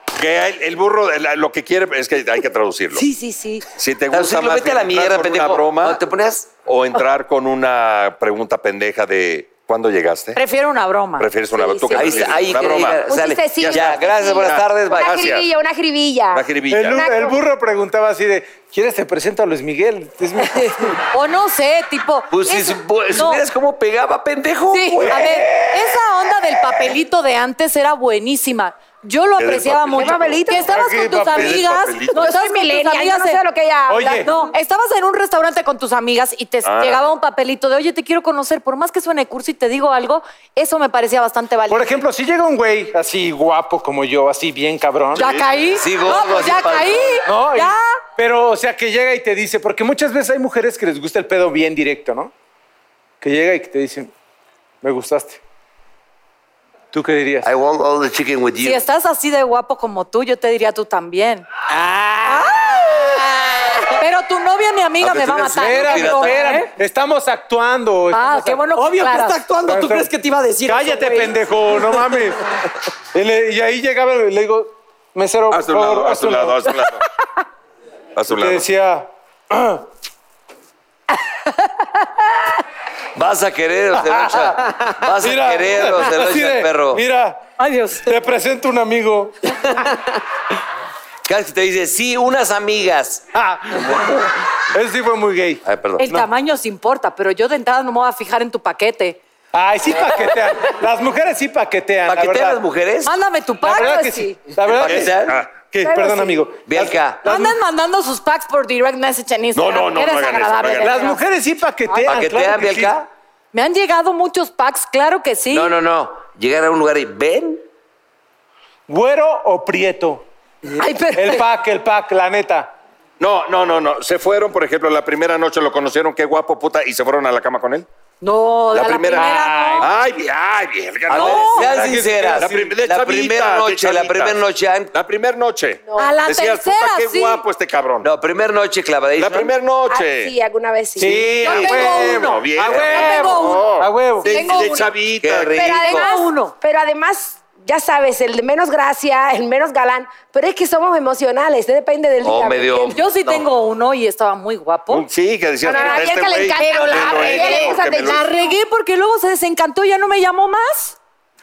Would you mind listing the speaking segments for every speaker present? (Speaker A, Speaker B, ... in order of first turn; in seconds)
Speaker A: 0.2-3.0, 3.7-6.0, 6.6-10.4, 11.2-15.4, 16.3-17.0, 29.4-32.3, 36.6-37.0, 75.5-77.0, 78.2-78.6, 104.8-105.7, 109.5-111.0, 123.2-127.8, 128.7-131.8, 132.4-134.4, 134.9-138.1, 139.2-140.3, 141.0-145.8, 154.9-158.2
Speaker B: 2.9-3.6, 11.6-12.3, 13.0-17.4, 30.0-30.7, 32.1-34.5, 105.8-106.5, 135.9-136.1, 139.9-141.3, 145.6-153.0, 155.6-158.6
Speaker C: 4.1-6.6, 11.9-15.3, 22.3-25.5, 45.3-47.2, 57.4-58.8, 65.0-66.4, 83.1-87.0, 91.2-93.2, 95.6-96.1, 102.1-103.2, 104.7-105.4, 106.7-107.2, 112.0-113.0, 115.5-117.6, 131.1-134.9, 138.0-139.5, 145.1-146.1, 152.2-153.4
Speaker D: 10.3-11.9, 21.1-23.4, 24.7-33.4, 34.2-42.0, 45.1-48.0, 58.6-61.5, 62.2-63.2, 63.9-66.7, 68.1-69.4, 87.6-88.1, 96.0-99.2, 103.0-104.3, 107.2-111.2, 113.5-115.7, 120.8-121.4, 128.2-129.9, 131.1-131.7, 136.0-137.4, 141.4-143.7, 144.2-144.9, 145.7-146.5, 152.9-155.1, 155.7-161.0
Speaker E: 16.7-21.0, 30.7-31.6, 33.9-34.3, 41.7-45.3, 47.2-52.3, 53.2-54.1, 54.8-55.4, 56.9-57.5, 65.6-68.6, 69.6-70.1, 70.7-72.4, 73.1-76.8, 78.3-79.9, 84.0-87.4, 87.9-89.9, 93.3-96.3, 99.5-102.6, 103.6-107.6, 110.7-113.0, 118.9-120.3, 121.1-122.7, 129.1-129.9, 131.5-132.8, 141.0-144.4
Speaker F: 61.7-63.9, 68.8-72.3